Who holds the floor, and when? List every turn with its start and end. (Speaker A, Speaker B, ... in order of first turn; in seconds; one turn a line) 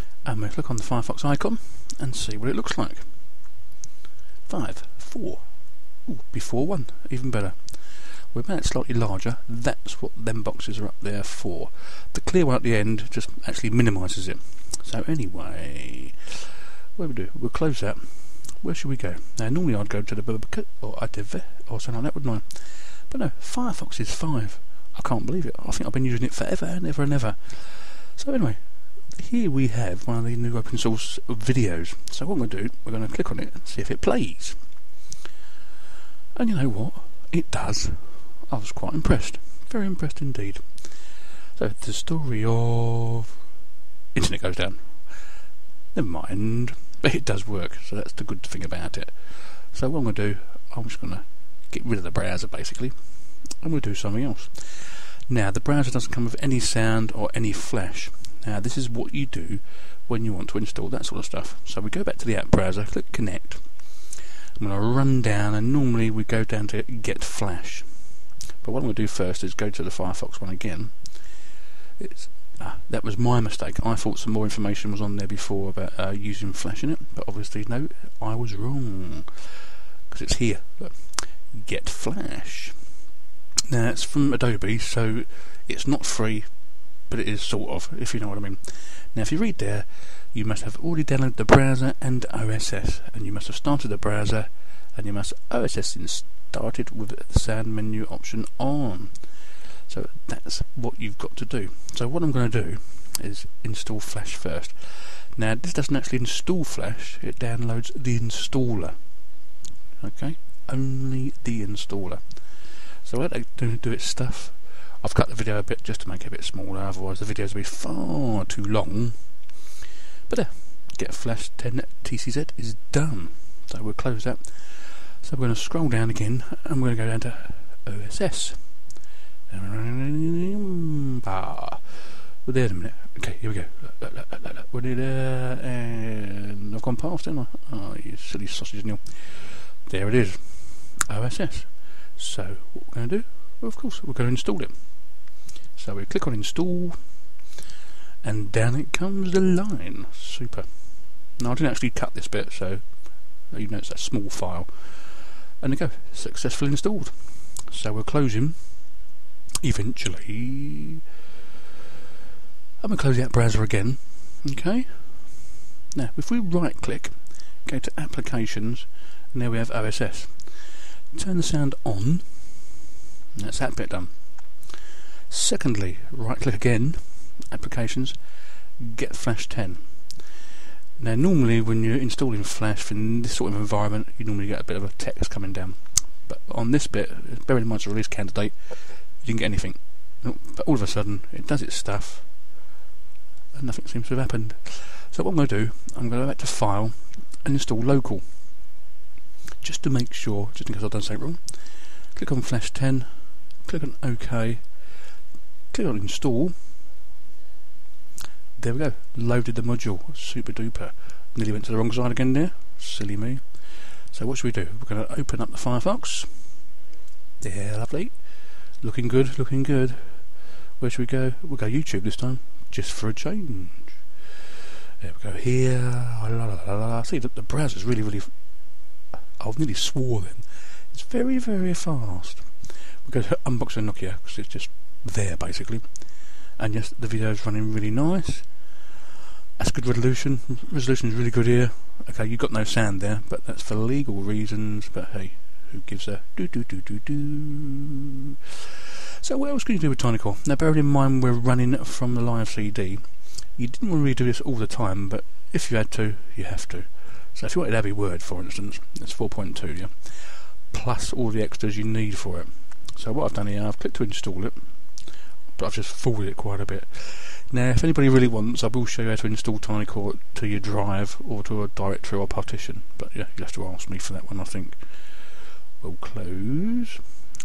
Speaker A: 0.2-3.4
Speaker A: 4.5-34.7
Speaker A: 36.4-43.4
Speaker A: 44.1-82.9
Speaker A: 83.7-109.0
Speaker A: 110.0-119.7
Speaker A: 120.3-147.4
Speaker A: 148.2-159.1
Speaker A: 159.6-161.0
Speaker A: 162.8-172.7
Speaker A: 173.3-174.8
Speaker A: 175.3-180.3
Speaker A: 181.0-192.5
Speaker A: 193.5-198.7
Speaker A: 199.6-204.9
Speaker A: 205.7-206.8
Speaker A: 208.6-216.7
Speaker A: 217.4-224.2
Speaker A: 225.0-238.8
Speaker A: 239.6-248.4
Speaker A: 249.2-277.1